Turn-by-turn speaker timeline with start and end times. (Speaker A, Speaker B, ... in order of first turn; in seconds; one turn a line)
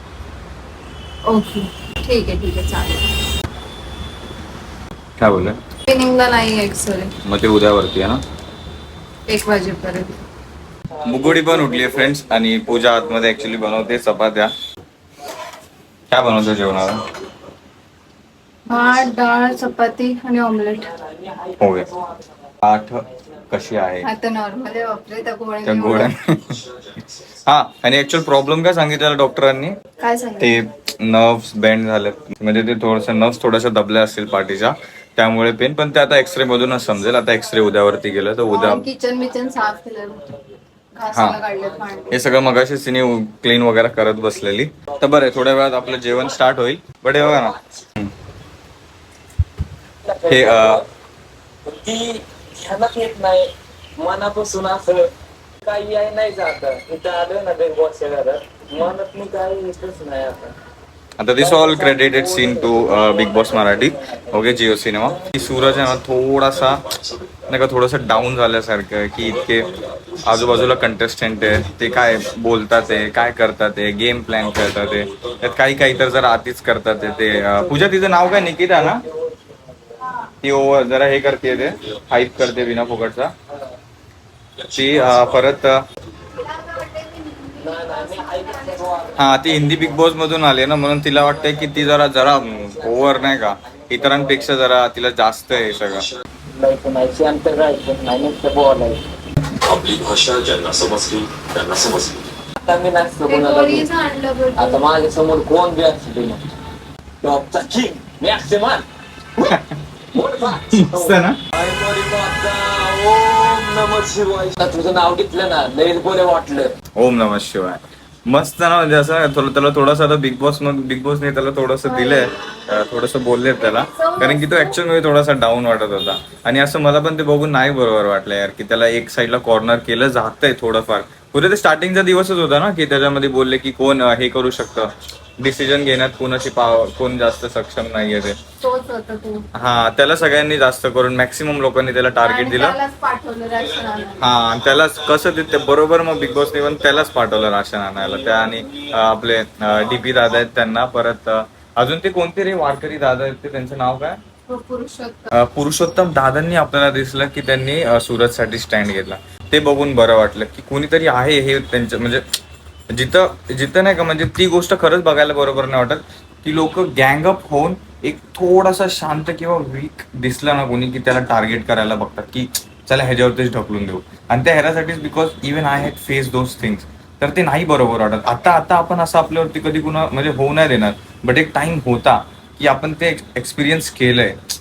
Speaker A: 1.3-3.0
Speaker B: 5.2-5.6
Speaker A: 5.9-7.1
Speaker B: 7.2-8.2
Speaker A: 9.3-10.2
Speaker B: 11.0-14.5
Speaker C: 11.2-12.1
Speaker B: 16.1-17.0
Speaker A: 18.7-20.9
Speaker C: 21.1-22.0
Speaker B: 21.6-21.9
Speaker B: 22.6-24.1
Speaker A: 24.0-26.1
Speaker B: 25.6-29.8
Speaker A: 30.0-30.5
Speaker B: 30.4-38.9
Speaker A: 38.5-40.2
Speaker A: 41.0-42.1
Speaker B: 41.1-41.4
Speaker B: 42.1-48.1
Speaker C: 45.9-46.2
Speaker C: 47.2-47.5
Speaker C: 50.0-50.8
Speaker B: 50.3-50.8
Speaker C: 51.6-55.1
Speaker C: 55.6-60.5
Speaker B: 61.2-66.8
Speaker C: 61.4-65.8
Speaker D: 67.0-67.3
Speaker B: 67.5-79.0
Speaker D: 69.8-70.8
Speaker C: 77.0-79.3
Speaker B: 80.4-83.3
Speaker D: 84.6-84.9
Speaker B: 84.7-85.8
Speaker A: 86.3-89.2
Speaker C: 87.6-90.0
Speaker B: 89.2-96.1
Speaker C: 91.4-94.5
Speaker C: 96.5-99.0
Speaker D: 99.7-102.3
Speaker C: 102.6-103.9
Speaker A: 103.3-104.8
Speaker C: 104.6-106.5
Speaker C: 107.2-108.8
Speaker B: 109.3-109.8
Speaker C: 110.1-116.7
Speaker B: 110.7-111.4
Speaker B: 117.0-138.4
Speaker A: 121.8-122.8
Speaker A: 123.6-124.8
Speaker A: 138.6-139.4
Speaker B: 139.5-142.8
Speaker A: 142.2-144.3
Speaker B: 144.2-154.2
Speaker A: 154.5-155.3
Speaker B: 155.3-162.2
Speaker B: 162.9-184.4